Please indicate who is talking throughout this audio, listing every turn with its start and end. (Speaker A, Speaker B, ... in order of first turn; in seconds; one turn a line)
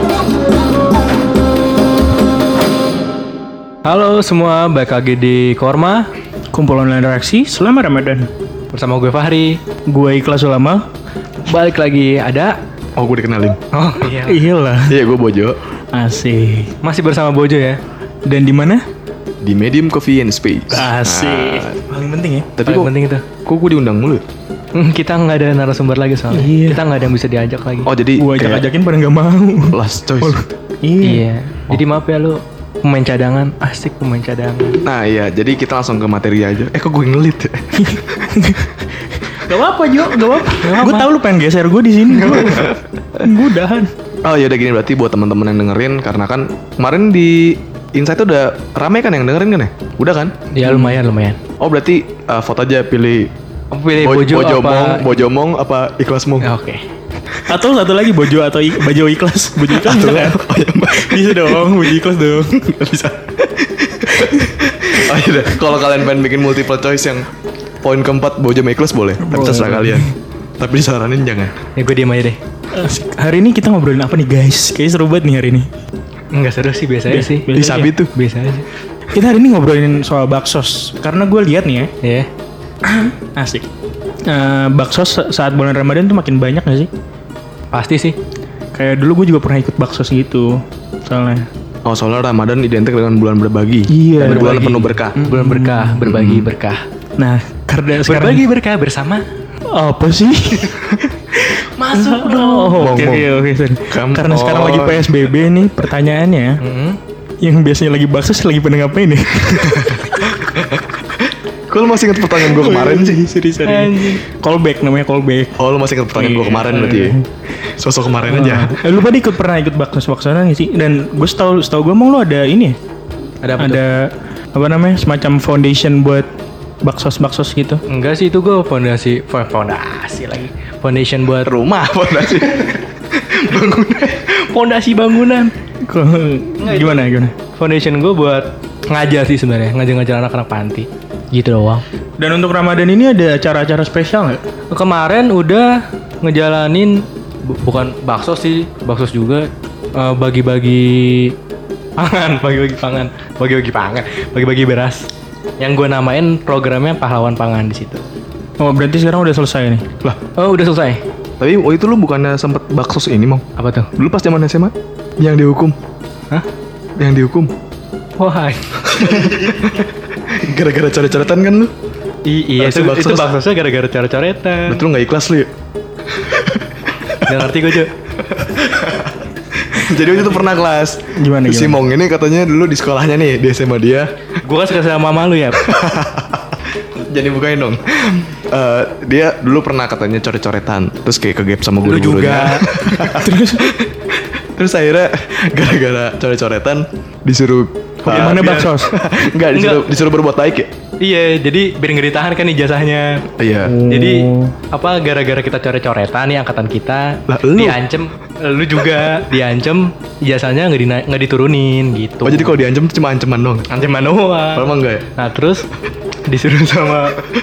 Speaker A: 3.9-6.1
Speaker B: 6.5-8.3
Speaker A: 8.7-9.6
Speaker B: 9.9-10.8
Speaker A: 11.5-12.6
Speaker C: 13.0-13.6
Speaker A: 13.7-14.4
Speaker B: 14.1-15.0
Speaker C: 14.9-15.6
Speaker B: 15.9-16.7
Speaker A: 16.8-17.8
Speaker B: 18.3-18.8
Speaker C: 19.4-21.8
Speaker B: 20.7-22.5
Speaker C: 22.6-22.9
Speaker A: 22.6-23.2
Speaker C: 23.5-24.2
Speaker A: 24.8-27.9
Speaker B: 26.3-26.8
Speaker C: 27.9-28.7
Speaker B: 28.2-31.3
Speaker C: 29.7-30.4
Speaker A: 31.0-34.8
Speaker C: 34.8-37.8
Speaker B: 37.8-43.9
Speaker A: 40.6-41.1
Speaker C: 42.2-43.2
Speaker C: 44.2-50.3
Speaker A: 50.5-51.4
Speaker B: 50.7-51.0
Speaker C: 51.6-53.3
Speaker A: 53.7-55.1
Speaker C: 54.0-56.5
Speaker A: 56.4-56.8
Speaker B: 57.5-62.6
Speaker C: 59.7-62.0
Speaker C: 62.5-67.3
Speaker C: 67.8-71.6
Speaker B: 69.2-70.1
Speaker A: 71.8-72.4
Speaker B: 72.7-75.7
Speaker A: 76.3-77.5
Speaker B: 77.1-77.9
Speaker C: 77.5-78.1
Speaker A: 78.1-78.7
Speaker B: 79.1-81.9
Speaker B: 82.8-83.7
Speaker B: 84.3-86.9
Speaker A: 87.7-88.2
Speaker B: 88.8-90.5
Speaker B: 91.1-91.5
Speaker C: 91.9-95.2
Speaker B: 93.9-96.0
Speaker A: 94.2-96.8
Speaker C: 96.0-96.5
Speaker B: 97.2-98.5
Speaker A: 98.1-99.2
Speaker B: 99.7-106.6
Speaker A: 101.8-103.1
Speaker C: 102.8-103.3
Speaker C: 103.9-105.3
Speaker A: 106.6-107.0
Speaker B: 107.4-110.0
Speaker C: 110.0-113.2
Speaker B: 112.3-115.5
Speaker A: 113.7-114.2
Speaker C: 115.6-118.8
Speaker B: 116.2-117.2
Speaker B: 118.3-122.8
Speaker A: 123.4-123.8
Speaker B: 123.6-126.3
Speaker B: 126.8-127.8
Speaker A: 127.9-131.5
Speaker C: 131.4-134.3
Speaker A: 134.1-135.5
Speaker B: 135.9-137.3
Speaker A: 136.6-141.8
Speaker B: 142.2-144.4
Speaker A: 144.7-151.3
Speaker A: 152.0-155.1
Speaker A: 155.6-158.0
Speaker B: 158.6-159.8
Speaker A: 160.3-161.0
Speaker C: 161.4-163.4
Speaker A: 163.6-163.9
Speaker C: 164.0-165.8
Speaker C: 167.0-167.5
Speaker A: 168.2-169.3
Speaker C: 168.9-171.7
Speaker A: 172.3-174.8
Speaker C: 172.6-173.4
Speaker C: 174.7-175.5
Speaker C: 176.1-177.5
Speaker A: 177.2-177.9
Speaker C: 178.2-184.2
Speaker A: 180.0-180.5
Speaker B: 181.2-181.8
Speaker A: 184.4-185.7
Speaker C: 185.6-200.7
Speaker A: 191.8-192.7
Speaker B: 193.0-193.7
Speaker A: 198.1-198.8
Speaker B: 198.1-198.9
Speaker A: 199.5-199.9
Speaker A: 201.0-203.3
Speaker C: 203.4-203.8
Speaker B: 203.6-204.6
Speaker A: 203.9-212.6
Speaker C: 207.3-207.8
Speaker C: 212.2-213.7
Speaker A: 213.7-215.7
Speaker C: 214.5-215.1
Speaker A: 216.3-217.2